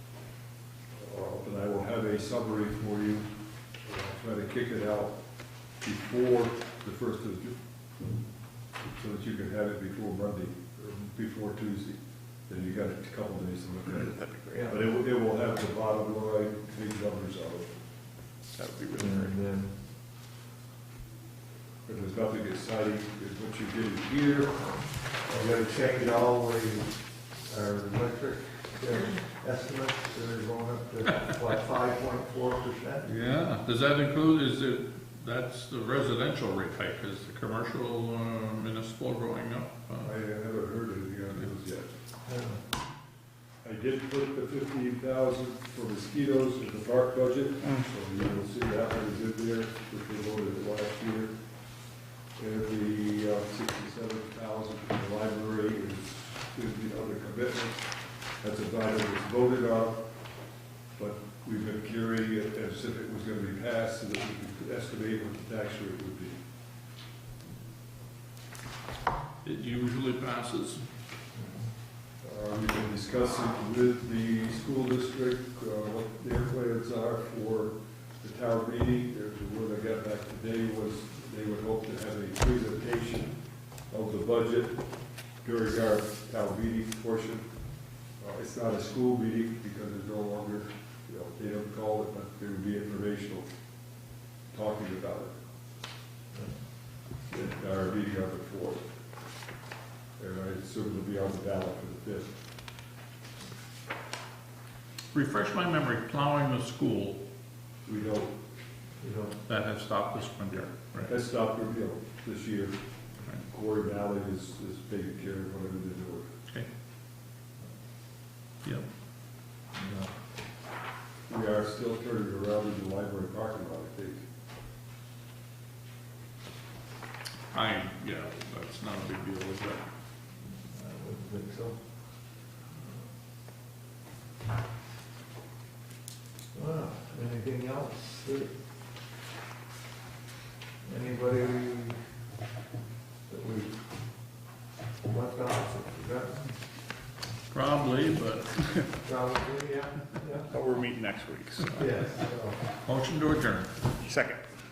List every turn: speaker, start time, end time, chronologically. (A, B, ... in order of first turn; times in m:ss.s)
0:00.9-0:03.3 A
0:03.8-0:05.2 A
0:05.8-0:07.6 A
0:08.9-0:17.8 A
0:13.9-0:14.7 B
0:14.5-0:14.8 C
0:18.5-0:19.4 B
0:19.0-0:19.8 C
0:21.9-0:26.3 A
0:25.3-0:33.1 C
0:33.0-0:40.2 D
0:40.0-0:41.9 A
0:42.2-0:42.6 C
0:43.6-0:51.4 A
0:52.4-1:00.1 A
1:01.0-1:06.4 A
1:09.4-1:10.8 D
1:12.2-1:23.4 A
1:23.9-1:24.8 A
1:25.4-1:27.5 A
1:28.2-1:33.5 A
1:34.5-1:35.4 A
1:37.2-1:38.8 A
1:40.2-1:42.3 A
1:45.1-1:47.2 D
1:47.8-1:48.3 A
1:49.0-1:49.4 C
1:49.5-1:51.1 D
1:51.0-1:52.8 A
1:53.4-1:56.3 A
1:59.7-2:00.1 C
2:01.3-2:04.2 A
2:07.5-2:09.9 D
2:10.7-2:11.8 C
2:16.5-2:18.5 C
2:20.8-2:22.0 C
2:23.3-2:23.8 C
2:25.0-2:26.6 C
2:27.5-2:28.9 D
2:29.0-2:30.5 C
2:30.5-2:32.0 B
2:31.8-2:32.6 C
2:32.8-2:33.8 D
2:34.0-2:34.4 B